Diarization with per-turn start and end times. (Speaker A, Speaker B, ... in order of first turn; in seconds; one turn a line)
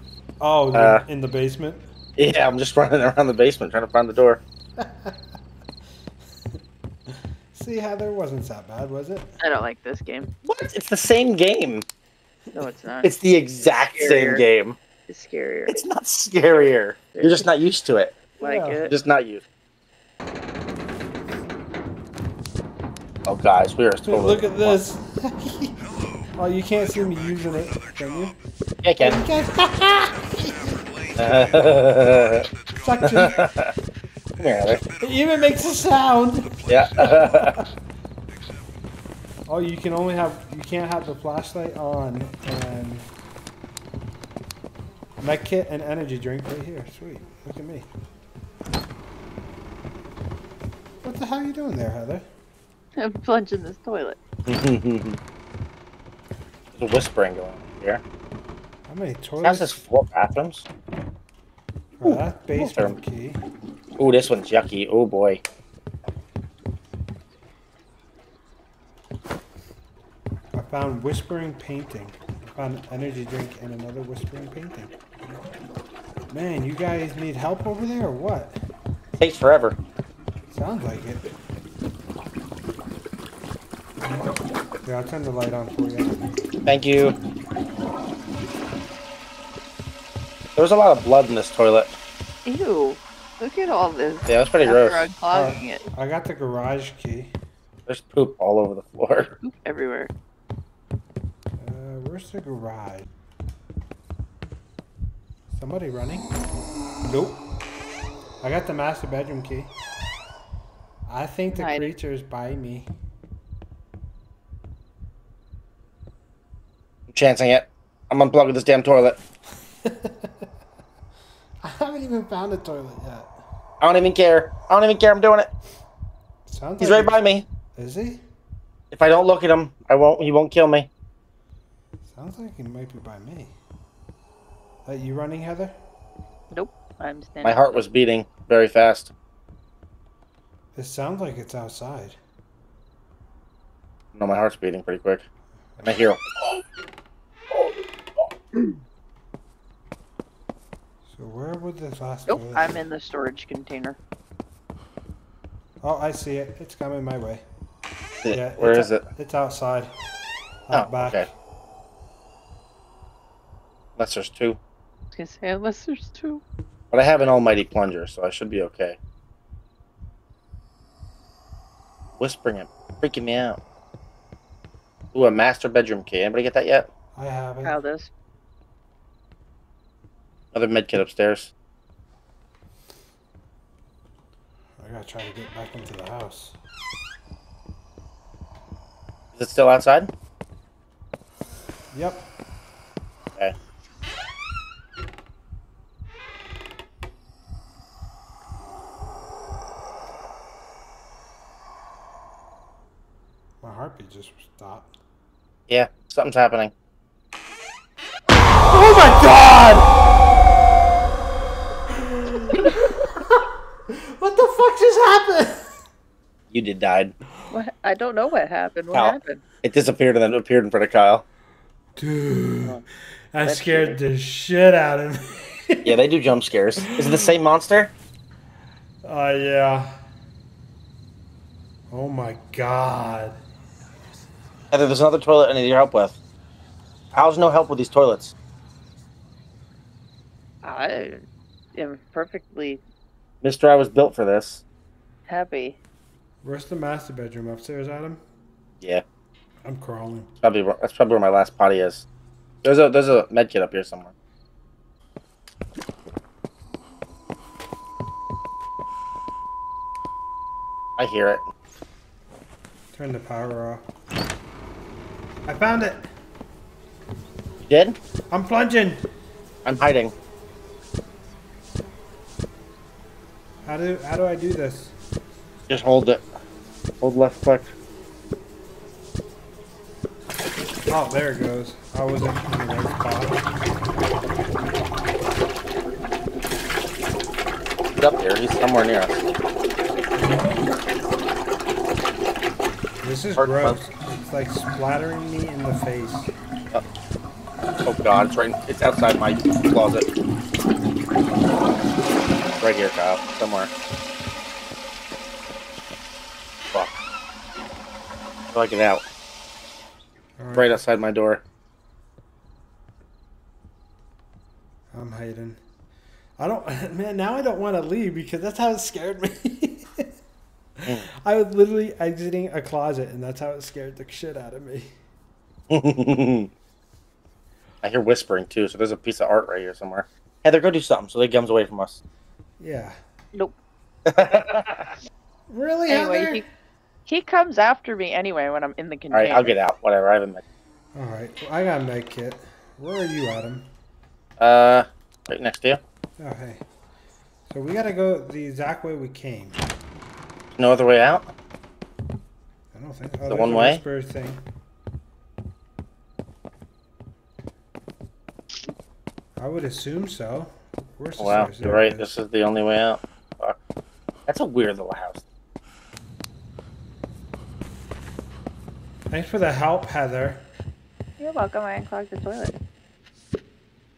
Speaker A: 0.4-1.8
Speaker B: 0.7-1.0
Speaker B: 2.2-4.4
Speaker A: 4.8-5.2
Speaker A: 7.1-9.3
Speaker C: 9.4-10.3
Speaker B: 10.4-11.8
Speaker C: 12.5-14.4
Speaker B: 13.0-14.8
Speaker C: 15.1-15.8
Speaker B: 15.7-18.2
Speaker C: 17.1-17.4
Speaker A: 18.4-18.9
Speaker C: 18.4-18.9
Speaker B: 18.9-19.4
Speaker B: 23.2-24.8
Speaker A: 24.0-25.8
Speaker A: 26.4-28.4
Speaker B: 28.8-29.2
Speaker A: 29.0-30.6
Speaker B: 31.1-32.5
Speaker A: 32.7-33.4
Speaker B: 33.0-33.7
Speaker B: 34.4-34.8
Speaker A: 35.0-37.6
Speaker B: 36.7-37.6
Speaker A: 39.5-43.1
Speaker A: 45.2-47.9
Speaker A: 51.0-52.3
Speaker C: 53.0-54.2
Speaker B: 54.5-55.2
Speaker B: 56.7-58.0
Speaker A: 58.9-59.8
Speaker B: 59.4-60.6
Speaker A: 62.0-63.4
Speaker B: 62.0-62.9
Speaker B: 64.0-65.4
Speaker A: 70.5-74.9
Speaker A: 76.3-78.6
Speaker B: 79.2-79.8
Speaker A: 80.5-81.3
Speaker A: 84.8-86.2
Speaker B: 86.7-87.2
Speaker B: 90.5-91.9
Speaker C: 92.4-95.8
Speaker B: 94.3-95.1
Speaker A: 95.3-97.3
Speaker B: 97.9-99.3
Speaker C: 99.4-100.1
Speaker A: 101.6-103.0
Speaker A: 105.5-106.3
Speaker A: 107.0-107.4
Speaker A: 108.4-109.7
Speaker A: 111.1-112.9
Speaker C: 111.5-111.9
Speaker B: 117.1-119.2
Speaker A: 119.8-120.5
Speaker A: 121.6-123.3
Speaker B: 123.8-125.5
Speaker A: 126.5-127.2
Speaker B: 126.8-127.4
Speaker A: 127.8-128.2
Speaker B: 128.9-130.9
Speaker A: 132.1-133.5
Speaker A: 134.8-135.7
Speaker C: 136.5-137.6
Speaker B: 137.4-139.1
Speaker A: 140.7-142.2
Speaker B: 144.1-145.2
Speaker B: 145.8-146.2
Speaker A: 151.1-152.8
Speaker C: 152.3-154.0
Speaker A: 155.8-157.4
Speaker B: 158.2-159.1
Speaker A: 158.3-159.9
Speaker A: 160.7-161.3
Speaker B: 160.7-161.3
Speaker B: 164.0-164.6
Speaker C: 165.1-166.4
Speaker B: 166.9-169.0
Speaker B: 172.2-173.6
Speaker B: 175.1-176.9
Speaker A: 177.1-177.8
Speaker C: 177.6-178.1
Speaker B: 180.5-181.5
Speaker A: 184.8-186.6
Speaker B: 189.3-190.1
Speaker A: 191.9-192.3
Speaker A: 203.6-204.9
Speaker B: 205.7-206.7
Speaker A: 208.7-209.9
Speaker A: 211.9-215.8
Speaker B: 216.5-217.1
Speaker C: 217.5-219.4
Speaker B: 218.9-221.2
Speaker A: 221.9-226.0
Speaker C: 223.4-224.0
Speaker B: 225.8-227.9
Speaker A: 226.8-227.3
Speaker A: 229.0-229.9
Speaker A: 231.9-233.4
Speaker B: 234.7-236.2
Speaker B: 237.1-238.3
Speaker C: 240.6-241.2
Speaker C: 241.7-242.8
Speaker B: 243.4-244.6
Speaker C: 245.3-245.8
Speaker A: 246.4-248.2
Speaker A: 249.6-250.3
Speaker B: 250.4-252.1
Speaker B: 252.6-254.1
Speaker B: 261.0-261.5
Speaker A: 262.9-263.8
Speaker A: 265.4-266.1
Speaker B: 267.6-268.0
Speaker A: 268.3-269.1
Speaker B: 269.6-270.1
Speaker A: 273.6-274.9
Speaker B: 275.7-276.2
Speaker B: 277.0-277.7
Speaker A: 280.9-283.5
Speaker B: 288.0-289.2
Speaker A: 290.2-290.5
Speaker A: 293.0-296.3
Speaker B: 293.4-293.8
Speaker B: 297.8-300.1
Speaker B: 302.6-303.7
Speaker B: 306.7-307.0
Speaker B: 308.5-309.0
Speaker A: 310.4-310.8
Speaker B: 310.5-311.4
Speaker A: 314.9-315.6
Speaker A: 316.4-320.1
Speaker A: 320.8-324.9
Speaker B: 325.7-326.5
Speaker B: 327.8-332.0
Speaker A: 332.6-333.0
Speaker B: 334.1-334.9
Speaker A: 335.5-336.4
Speaker C: 335.9-336.4
Speaker C: 337.1-339.6
Speaker B: 339.1-340.4
Speaker A: 340.9-343.7
Speaker B: 344.4-345.8
Speaker A: 346.2-346.6
Speaker A: 347.5-349.6
Speaker B: 350.5-351.3
Speaker A: 352.7-354.4
Speaker B: 353.3-353.8
Speaker A: 359.4-362.1
Speaker B: 361.2-363.6
Speaker B: 364.3-365.2
Speaker A: 369.1-370.5
Speaker C: 371.2-372.5